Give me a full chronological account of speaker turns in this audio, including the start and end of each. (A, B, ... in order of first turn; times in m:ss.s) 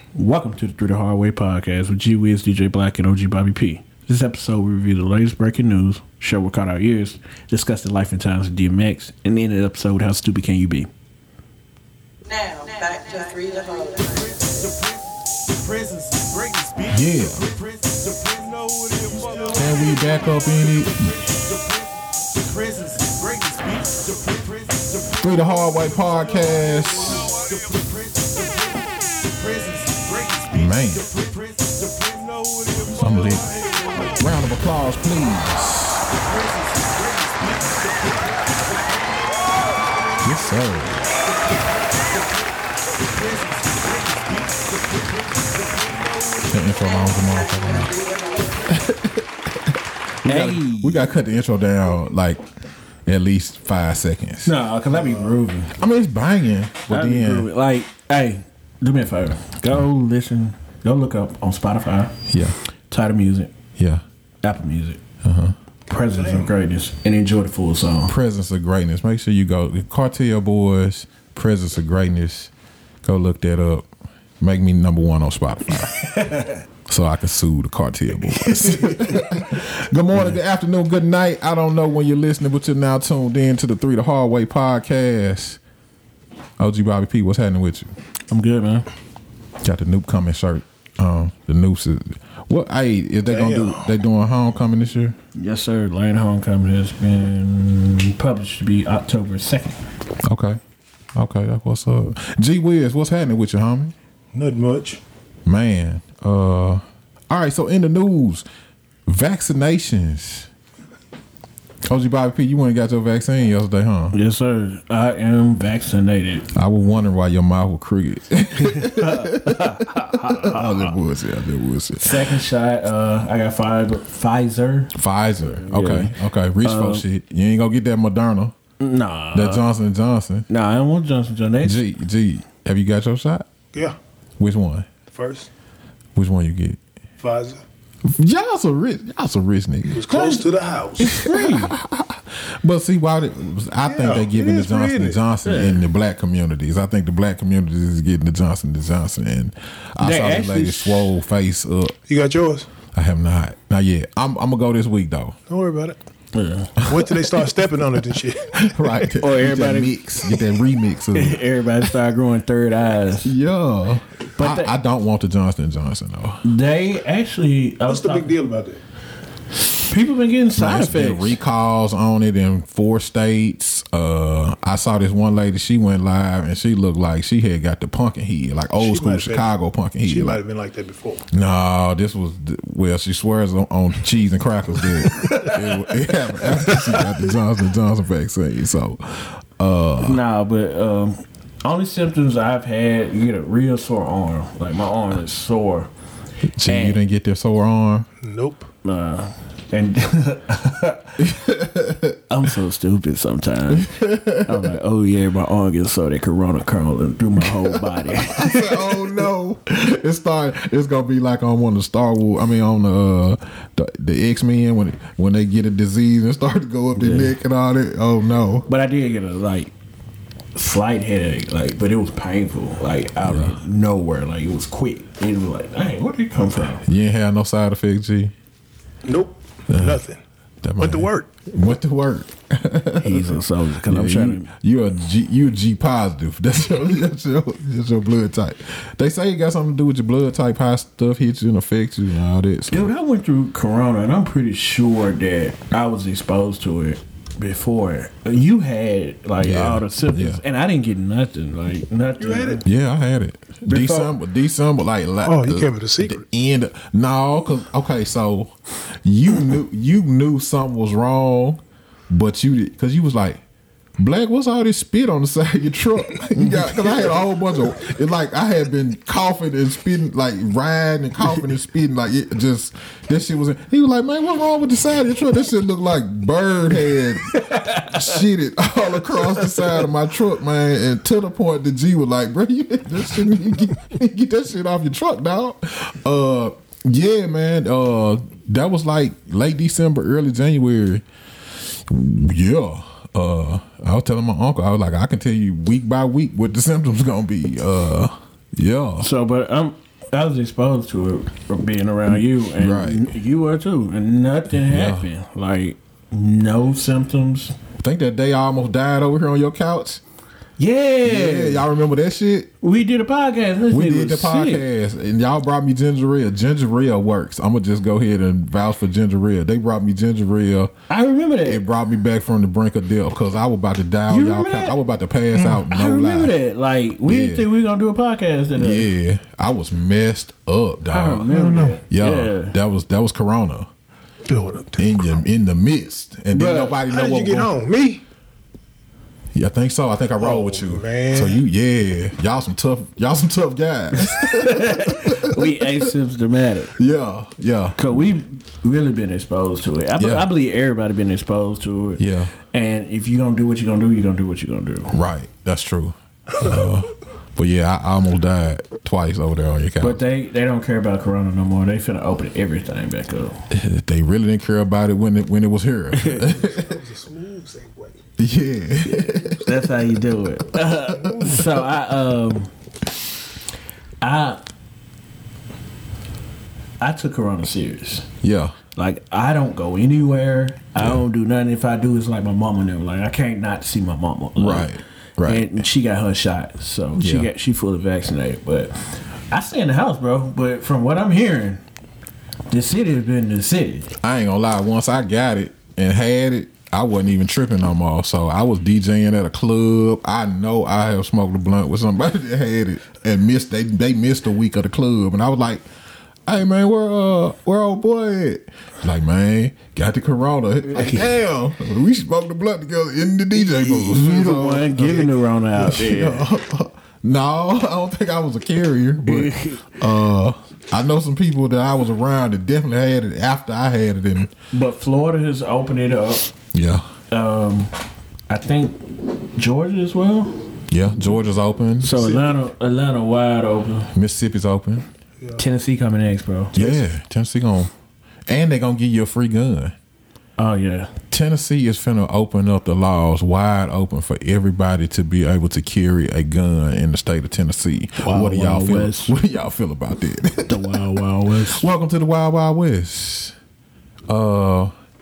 0:00.1-0:10.9 A
0:12.2-0:14.7 B
0:16.9-0:17.5 C
0:19.5-0:21.3 C
0:23.5-0:24.0 A
0:25.1-0:27.4 C
0:30.5-0:31.1 C
0:32.9-0:36.1 C
0:40.2-0:41.0 C
0:46.4-0:47.9 C
0:46.9-0:48.7 B
0:48.7-0:52.4 C
0:50.2-0:51.1 A
0:53.0-0:54.5 C
0:54.4-0:55.7 A
0:54.9-0:55.4 D
0:55.8-0:57.5 C
0:56.9-1:02.1 A
1:02.3-1:02.6 C
1:02.9-1:03.5 A
1:03.8-1:04.0 C
1:04.4-1:05.0 A
1:05.2-1:05.5 C
1:05.9-1:08.2 A
1:06.1-1:06.5 D
1:08.1-1:12.5 C
1:13.0-1:13.9 C
1:14.4-1:16.1 C
1:15.9-1:16.6 A
1:16.9-1:25.6 C
1:18.4-1:20.4 A
1:26.6-1:27.9 C
1:28.3-1:28.9 A
1:29.6-1:35.2 C
1:33.3-1:33.9 D
1:35.3-1:39.8 A
1:40.2-1:40.6 C
1:41.1-1:43.9 C
1:44.3-1:45.0 D
1:45.4-1:48.4 C
1:49.1-1:50.5 C
1:51.8-1:54.2 C
1:54.1-1:56.5 A
1:56.5-2:02.3 C
1:58.6-2:00.9 A
2:02.0-2:04.9 A
2:04.9-2:08.5 C
2:05.4-2:07.0 A
2:08.8-2:09.6 A
2:09.3-2:10.4 C
2:10.5-2:11.8 A
2:11.6-2:13.5 C
2:14.4-2:14.9 C
2:15.1-2:15.5 D
2:16.1-2:16.8 C
2:17.2-2:17.6 D
2:18.0-2:20.4 C
2:19.9-2:21.2 D
2:21.0-2:31.9 C
2:21.1-2:21.8 A
2:23.8-2:25.2 D
2:25.4-2:25.8 A
2:30.0-2:31.1 A
2:32.1-2:32.7 D
2:32.9-2:35.4 C
2:35.5-2:36.0 D
2:36.3-2:36.8 A
2:36.8-2:38.7 D
2:38.6-2:41.4 C
2:39.1-2:39.9 A
2:41.1-2:43.3 A
2:43.2-2:46.4 C
2:44.4-2:44.7 A
2:46.4-2:48.3 A
2:47.9-2:48.8 D
2:49.9-2:51.4 A
2:50.6-3:00.4 C
2:58.8-2:59.5 D
3:00.0-3:01.2 D
3:01.3-3:10.2 C
3:05.2-3:05.6 A
3:10.0-3:15.9 A
3:16.5-3:18.1 C
3:16.6-3:17.0 A
3:18.2-3:18.7 D
3:18.8-3:21.2 A
3:21.2-3:22.2 C
3:22.3-3:29.1 A
3:23.8-3:24.6 C
3:27.4-3:38.7 C
3:37.0-3:37.3 A
3:38.7-3:39.7 A
3:40.5-3:46.8 A
3:43.2-3:43.6 C
3:46.8-3:48.3 C
3:49.0-3:50.2 D
3:49.7-3:50.0 C
3:50.6-4:02.9 C
3:50.8-3:51.3 D
3:53.0-3:54.5 A
4:02.7-4:12.6 A
4:09.4-4:10.4 C
4:12.2-4:12.6 D
4:12.6-4:23.4 C
4:13.6-4:14.1 D
4:15.2-4:16.2 D
4:24.0-4:51.0 C
4:26.4-4:26.7 A
4:37.3-4:38.2 A
4:39.1-4:39.8 A
4:51.7-4:59.1 C
4:59.0-5:07.6 A
5:02.6-5:03.1 C
5:04.6-5:05.1 C
5:07.8-5:10.0 C
5:10.6-5:11.6 A
5:11.0-5:12.5 C
5:12.6-5:14.6 A
5:13.7-5:20.7 C
5:20.9-5:21.6 A
5:21.4-5:26.3 C
5:24.1-5:24.8 A
5:25.3-5:25.6 D
5:25.6-5:28.9 A
5:27.0-5:27.5 C
5:28.6-5:31.3 C
5:30.9-5:32.6 A
5:31.3-5:31.8 D
5:31.9-5:33.7 C
5:34.3-5:35.2 D
5:34.8-5:37.5 C
5:36.3-5:36.7 A
5:36.7-5:38.0 D
5:39.3-5:45.8 C
5:40.2-5:41.4 D
5:43.9-5:46.8 A
5:46.8-5:47.8 C
5:47.8-5:55.0 A
5:50.0-5:50.3 C
5:52.0-5:52.3 C
5:54.9-6:00.0 C
5:59.8-6:03.4 A
6:03.5-6:06.7 C
6:05.9-6:06.3 A
6:06.2-6:08.0 D
6:08.2-6:09.5 C
6:09.4-6:12.5 A
6:11.0-6:11.4 D
6:11.0-6:11.4 C
6:14.0-6:14.4 A
6:16.8-6:18.1 A
6:18.2-6:18.6 C
6:18.7-6:24.7 A
6:24.4-6:25.6 C
6:25.2-6:31.6 A
6:27.0-6:27.3 C
6:32.5-6:33.9 A
6:34.0-6:45.6 C
6:46.3-7:04.3 C
6:50.7-6:51.1 A
6:53.4-6:56.3 A
6:59.0-6:59.8 A
7:04.5-7:06.3 A
7:06.5-7:06.9 C
7:07.1-7:07.7 A
7:08.3-7:10.4 A
7:10.7-7:12.0 C
7:11.8-7:13.9 A
7:12.0-7:12.3 D
7:13.9-7:14.8 C
7:15.4-7:16.5 A
7:16.5-7:17.7 C
7:16.5-7:16.8 D
7:18.3-7:19.7 C
7:20.4-7:20.9 A
7:21.1-7:33.3 C
7:28.0-7:29.2 A
7:30.5-7:31.6 A
7:34.1-7:34.7 C